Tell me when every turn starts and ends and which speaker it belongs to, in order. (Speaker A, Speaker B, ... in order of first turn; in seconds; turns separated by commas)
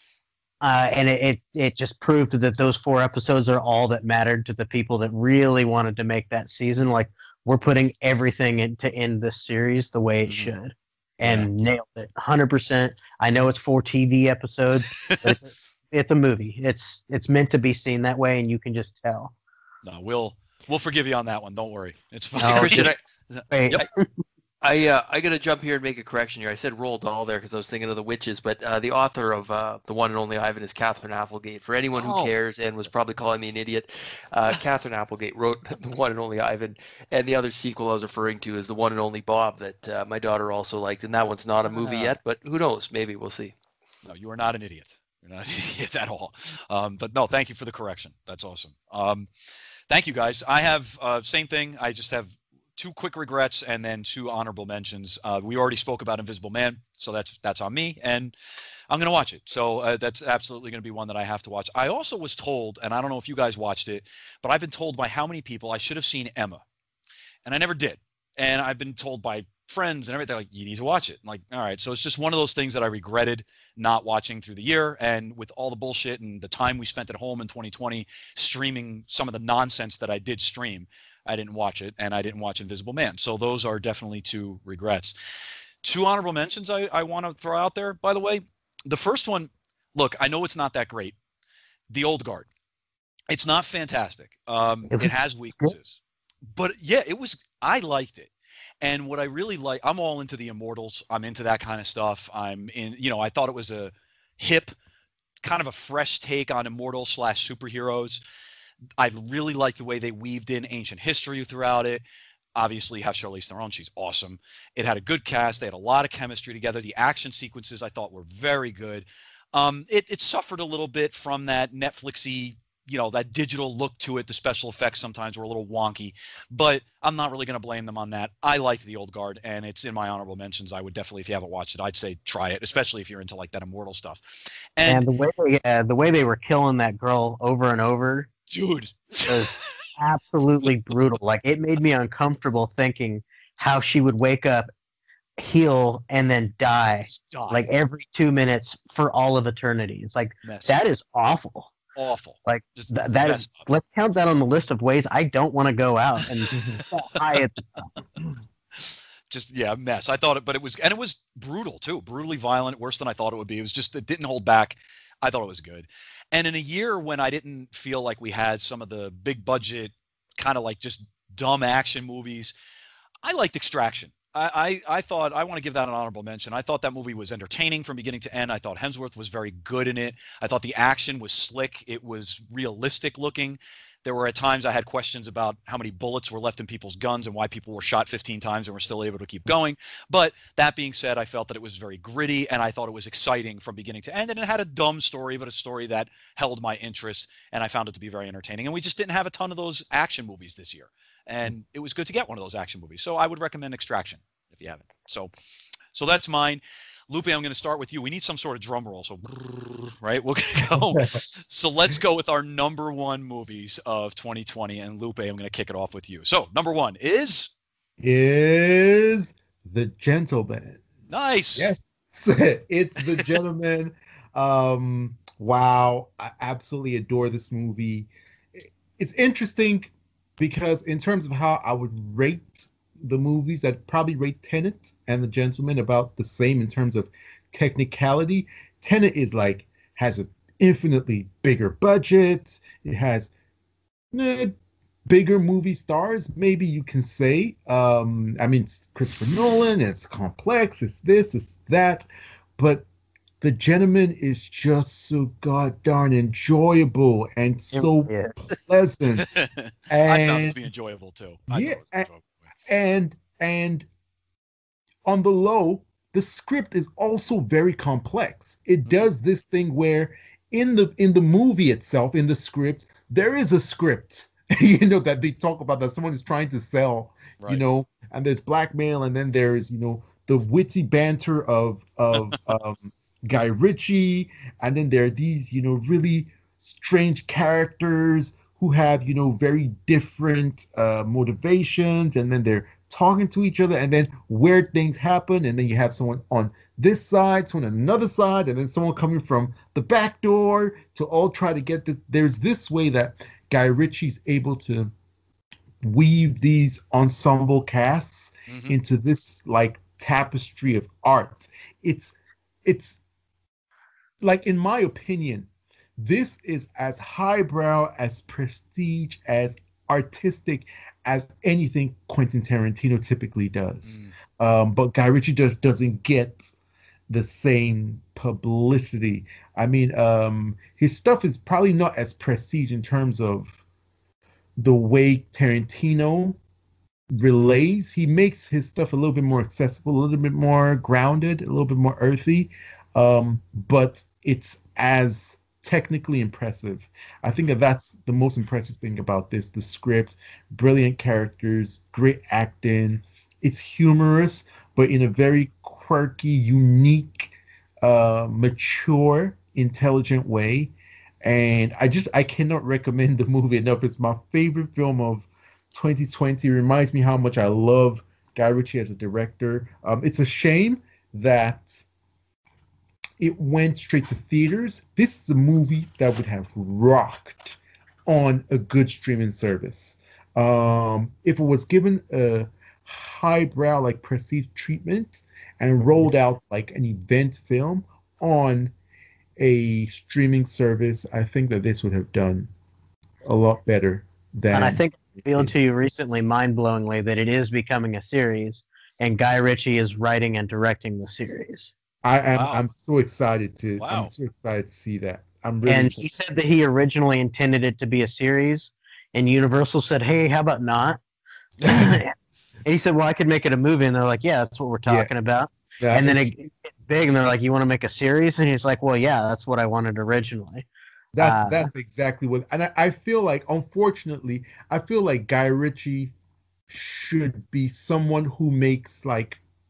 Speaker A: 0.6-19.3, Speaker B: 10.2-10.5, Speaker B: 11.2-11.5, Speaker B: 14.8-15.4, Speaker B: 19.8-23.8, Speaker A: 22.4-23.0, Speaker C: 22.4-23.0, Speaker A: 23.5-24.2, Speaker C: 24.6-43.5, Speaker B: 32.0-32.3, Speaker B: 41.6-42.1, Speaker B: 44.0-66.6, Speaker B: 67.5-91.2, Speaker B: 91.9-92.5, Speaker B: 93.3-96.0, Speaker A: 94.9-95.7, Speaker B: 96.5-98.3, Speaker B: 98.8-104.7, Speaker B: 105.4-108.2, Speaker B: 109.0-112.0, Speaker B: 112.5-135.1, Speaker A: 134.9-138.3, Speaker B: 138.5-139.9, Speaker A: 139.3-144.7, Speaker A: 145.4-151.7, Speaker B: 147.1-147.6, Speaker B: 150.4-150.8, Speaker B: 152.0-153.7, Speaker A: 152.5-157.9, Speaker D: 156.5-156.8, Speaker B: 158.7-172.6, Speaker B: 173.2-205.3, Speaker B: 205.9-217.5, Speaker D: 210.7-211.2, Speaker D: 218.0-220.8, Speaker B: 221.1-221.7, Speaker D: 221.6-243.3, Speaker D: 244.1-244.5, Speaker D: 245.1-252.9, Speaker D: 253.4-259.3, Speaker A: 257.7-258.3, Speaker B: 259.3-262.3, Speaker D: 259.9-260.6, Speaker D: 261.5-262.1, Speaker D: 262.7-263.9, Speaker D: 265.1-304.9, Speaker D: 305.8-312.1, Speaker B: 308.5-308.8, Speaker D: 312.6-313.0, Speaker D: 314.2-315.5, Speaker D: 316.0-326.5, Speaker B: 323.9-324.1, Speaker D: 327.1-333.6, Speaker D: 334.6-336.4, Speaker D: 337.1-371.8, Speaker D: 373.2-388.7, Speaker D: 389.4-392.5, Speaker D: 393.3-395.5, Speaker A: 394.5-401.7, Speaker D: 402.0-406.1, Speaker B: 402.3-402.6, Speaker B: 403.8-404.1, Speaker A: 405.6-411.0, Speaker D: 411.6-412.0, Speaker A: 411.6-412.1, Speaker A: 412.6-420.7, Speaker D: 415.8-416.3, Speaker D: 421.1-426.1, Speaker A: 421.2-421.7, Speaker D: 426.7-429.4